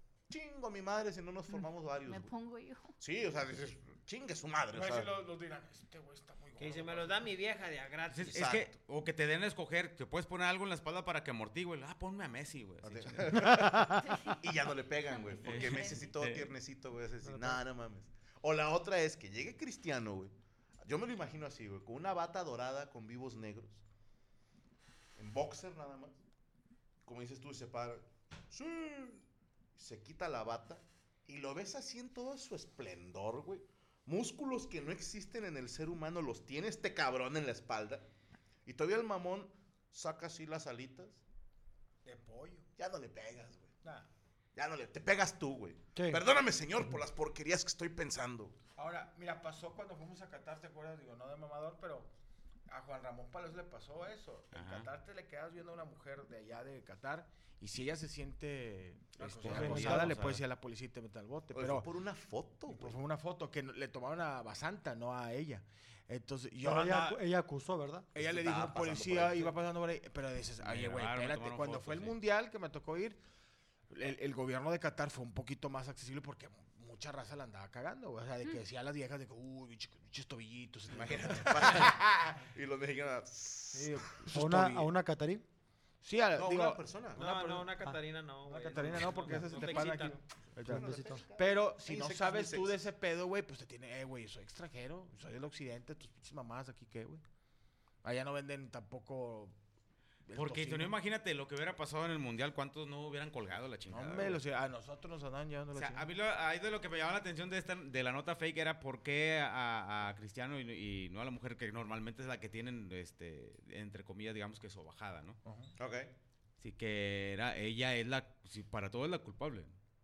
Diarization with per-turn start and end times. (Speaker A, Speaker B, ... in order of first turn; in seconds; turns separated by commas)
Speaker A: 0.3-2.3, Speaker B: 2.1-3.0, Speaker A: 3.0-5.2, Speaker C: 4.7-7.3, Speaker D: 6.6-8.4, Speaker E: 8.1-13.6, Speaker A: 8.3-8.7, Speaker A: 12.8-20.3, Speaker B: 13.9-14.4, Speaker B: 15.1-16.1, Speaker E: 15.4-16.5, Speaker F: 17.2-17.6, Speaker A: 20.8-23.8, Speaker A: 25.2-26.2, Speaker A: 27.1-29.2, Speaker A: 29.8-38.1, Speaker A: 38.7-41.2, Speaker C: 42.0-42.7, Speaker A: 42.8-43.7, Speaker C: 43.8-44.1, Speaker A: 44.5-48.6, Speaker F: 46.0-46.2, Speaker C: 48.8-52.1, Speaker C: 52.7-61.9, Speaker E: 54.5-54.9, Speaker E: 59.2-60.4, Speaker F: 59.5-60.1, Speaker A: 61.5-63.0, Speaker C: 62.7-67.2, Speaker F: 66.6-68.1, Speaker A: 68.2-69.6, Speaker C: 68.2-73.2, Speaker E: 70.6-72.2, Speaker C: 73.9-82.0, Speaker A: 80.9-84.2, Speaker C: 83.7-84.9, Speaker F: 84.3-85.5, Speaker C: 86.0-87.9, Speaker A: 86.4-87.2, Speaker D: 87.2-90.2, Speaker C: 88.5-97.2, Speaker A: 90.6-92.8, Speaker F: 90.7-91.2, Speaker C: 98.0-99.6, Speaker C: 100.3-101.0, Speaker E: 100.3-104.4, Speaker C: 103.9-106.1, Speaker E: 105.8-115.4, Speaker C: 115.5-115.7, Speaker A: 115.8-116.1, Speaker E: 116.6-119.8